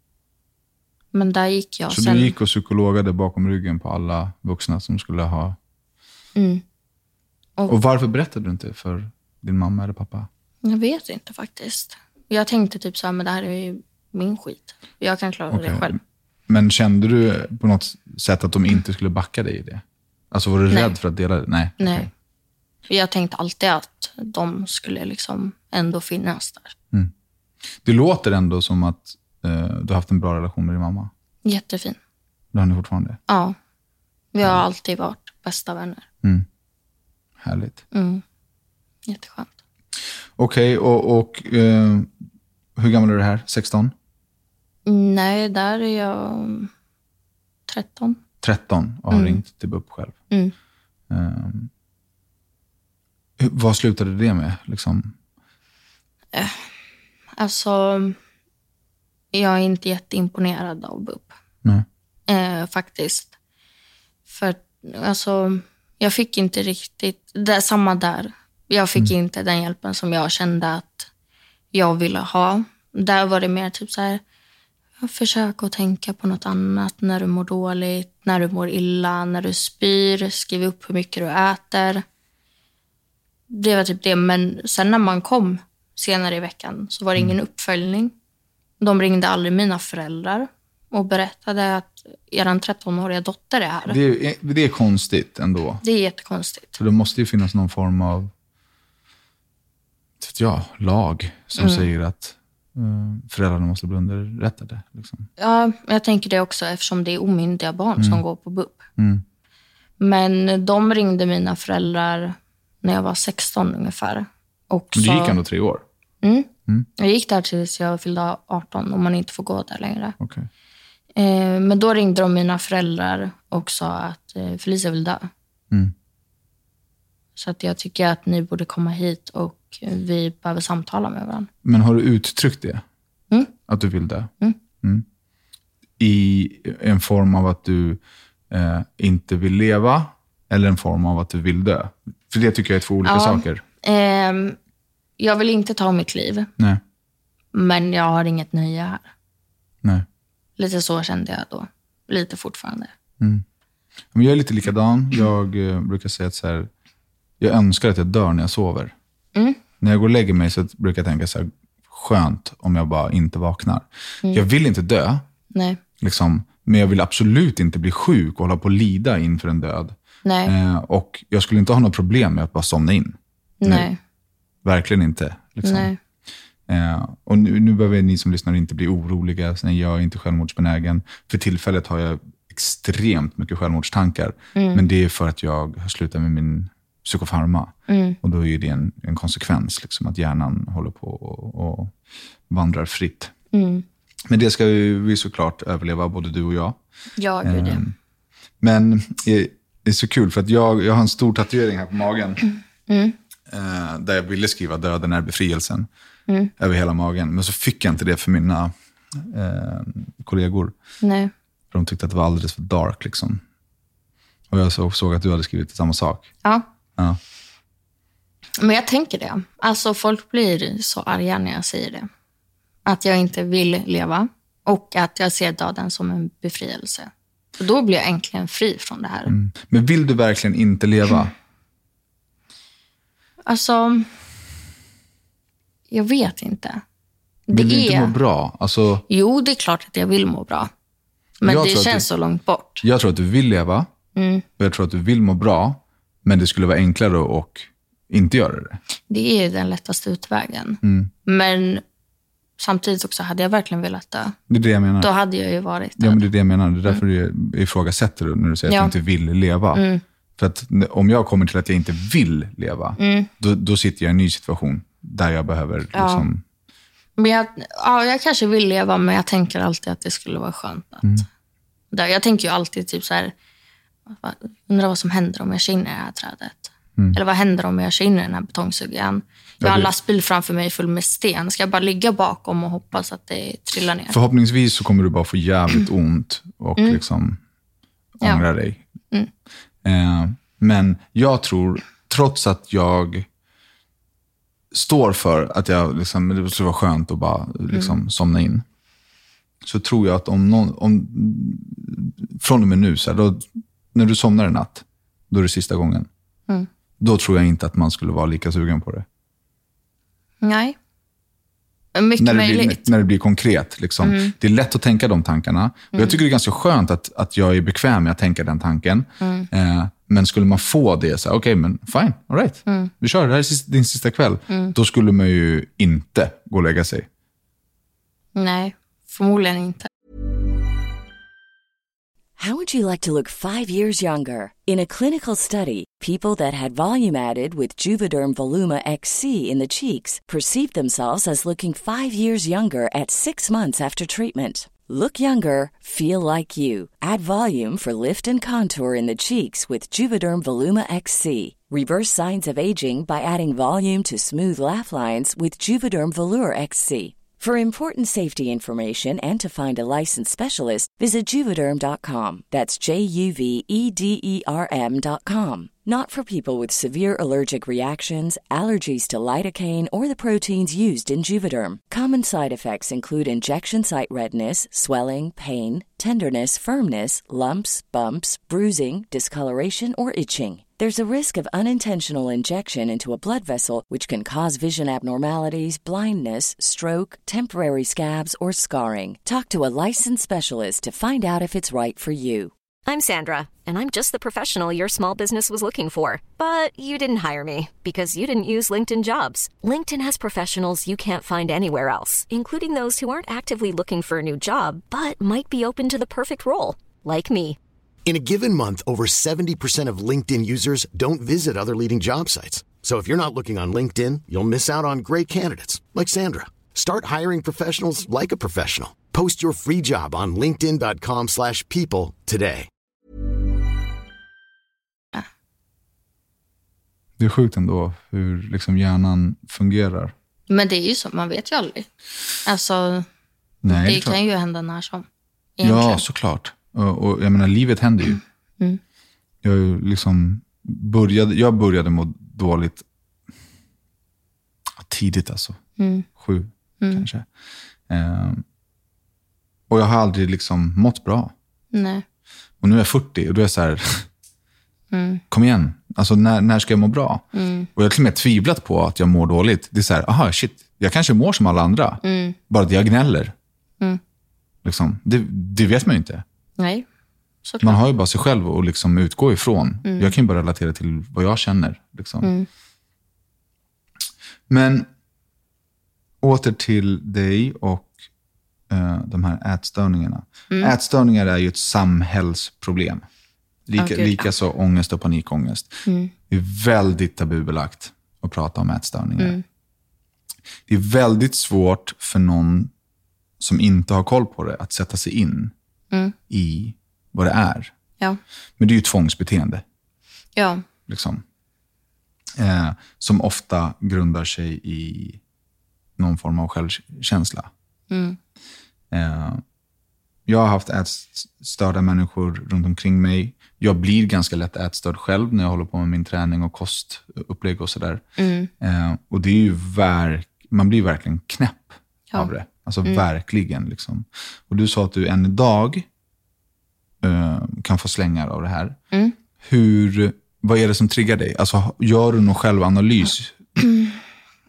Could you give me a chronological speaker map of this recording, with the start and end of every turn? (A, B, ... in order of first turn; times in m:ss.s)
0:01.1-0:02.3 A
0:01.9-0:05.6 B
0:06.4-0:06.6 A
0:07.7-0:10.3 B
0:10.6-0:16.0 A
0:15.5-0:16.0 B
0:16.5-0:22.1 B
0:21.8-0:22.1 A
0:22.9-0:26.7 A
0:27.8-0:31.1 B
0:31.4-0:32.0 A
0:32.5-0:33.2 B
0:33.3-0:33.5 A
0:34.3-0:36.0 A
0:37.4-0:37.8 B
0:37.9-0:38.2 A
0:39.1-0:39.5 A
0:40.4-0:42.1 B
0:42.8-0:43.9 B
0:44.8-0:46.7 A
0:47.7-0:48.2 A
0:48.4-0:50.2 B
0:49.1-0:49.4 A
0:51.1-0:51.7 B
0:53.4-0:55.1 B
0:56.3-0:56.7 A
0:57.4-0:58.2 A
0:59.3-1:01.3 A
1:02.3-1:03.3 A
1:04.3-1:11.1 A
1:11.7-1:14.2 A
1:15.0-1:22.0 A
1:23.5-1:28.1 A
1:28.8-1:34.0 A
1:33.8-1:35.8 B
1:35.8-1:36.8 A
1:36.8-1:38.3 B
1:40.2-1:45.3 B
1:41.6-1:41.8 A
1:45.4-1:48.9 A
1:48.0-1:48.2 B
1:49.0-1:49.2 B
1:50.0-1:55.4 A
1:54.9-1:55.8 B
1:56.2-2:00.2 A
2:00.2-2:00.5 B
2:01.2-2:05.3 A
2:07.4-2:11.5 A
2:11.6-2:12.8 B
2:13.7-2:14.3 B
2:16.0-2:23.6 B
2:23.0-2:24.6 A
2:25.2-2:26.5 A
2:27.5-2:29.1 A
2:30.6-2:32.9 A
2:34.1-2:36.7 B
2:37.4-2:38.9 B
2:39.8-2:45.2 B
2:45.5-2:45.8 A
2:46.0-2:53.9 B
2:50.2-2:50.5 A
2:53.6-2:54.0 A
2:54.6-2:55.9 B
2:55.6-2:56.0 A
2:56.7-3:11.9 B
3:04.6-3:04.8 A
3:07.9-3:08.2 A
3:12.5-3:13.3 B
3:13.5-3:13.8 A
3:14.3-3:16.8 B
3:17.2-3:17.8 A
3:17.4-3:17.9 B
3:18.6-3:22.4 B
3:22.9-3:23.2 A
3:23.5-3:25.9 B
3:26.6-3:30.7 B
3:31.0-3:31.3 A
3:31.7-3:33.4 B
3:34.5-3:36.3 B
3:38.6-3:42.1 A
3:42.8-3:49.3 A
3:49.3-3:51.3 B
3:53.4-3:54.1 A
3:55.9-3:56.8 A
3:57.5-3:58.2 A
3:57.5-3:59.0 B
3:59.1-4:00.7 A
4:01.4-4:02.0 B
4:01.4-4:02.8 A
4:02.8-4:03.9 B
4:04.1-4:04.4 A
4:04.6-4:08.8 B
4:09.1-4:11.8 A
4:10.8-4:11.1 B
4:12.6-4:14.4 A
4:14.5-4:15.1 B
4:15.0-4:16.2 A
4:16.0-4:19.8 B
4:18.7-4:18.9 A
4:19.7-4:20.0 A
4:20.4-4:26.4 B
4:23.0-4:23.3 A
4:25.9-4:26.3 A
4:27.2-4:31.2 A
4:31.9-4:33.3 A
4:34.1-4:44.2 A
4:39.6-4:39.9 B
4:44.1-4:47.4 B
4:48.2-4:48.8 B
4:49.8-4:53.3 B
4:54.7-4:58.6 B
4:57.7-4:58.0 A
4:59.6-5:06.1 B
5:07.0-5:09.0 B
5:10.4-5:10.7 A
5:11.9-5:12.9 A
5:12.2-5:27.1 B
5:14.0-5:14.3 A
5:15.9-5:16.2 A
5:19.2-5:19.5 A
5:24.5-5:24.7 A
5:28.3-5:29.9 A
5:32.4-6:32.5 C
6:32.8-6:47.6 D
6:48.0-7:02.7 E
7:07.2-7:10.1 B
7:10.5-7:11.9 A
7:12.4-7:13.0 A
7:13.6-7:14.2 B
7:13.6-7:15.0 A
7:15.6-7:16.0 A
7:15.6-7:18.2 B
7:19.4-7:22.8 B
7:24.8-7:25.6 B
7:25.8-7:26.1 A
7:26.1-7:27.3 B
7:26.8-7:27.1 A
7:27.9-7:28.4 B
7:29.7-7:31.3 B
7:31.7-7:32.0 A
7:32.6-7:34.1 B
7:34.9-7:35.2 A
7:35.3-7:43.3 B
7:37.3-7:37.7 A
7:42.0-7:42.4 A
7:44.6-7:46.2 B
7:46.6-7:46.8 A
7:47.4-7:47.8 A
7:47.6-7:52.3 B
7:49.8-7:50.1 A
7:52.2-7:52.5 A
7:54.5-7:54.9 B
7:56.2-7:57.9 B
7:58.7-8:03.0 B
8:00.5-8:00.7 A
8:03.7-8:09.4 B
8:03.8-8:04.3 A
8:05.8-8:06.1 A
8:10.7-8:12.7 B
8:13.4-8:15.5 B
8:16.3-8:17.7 B
8:18.6-8:19.6 B
8:20.4-8:20.6 A
8:20.9-8:21.2 B
8:22.4-8:25.2 B
8:26.0-8:27.5 B
8:27.9-8:28.2 A
8:28.9-8:29.4 B
8:30.2-8:38.0 B
8:38.2-8:38.5 A
8:38.6-8:45.8 B
8:47.0-8:48.8 B
8:49.4-8:53.4 B
8:53.6-8:54.0 A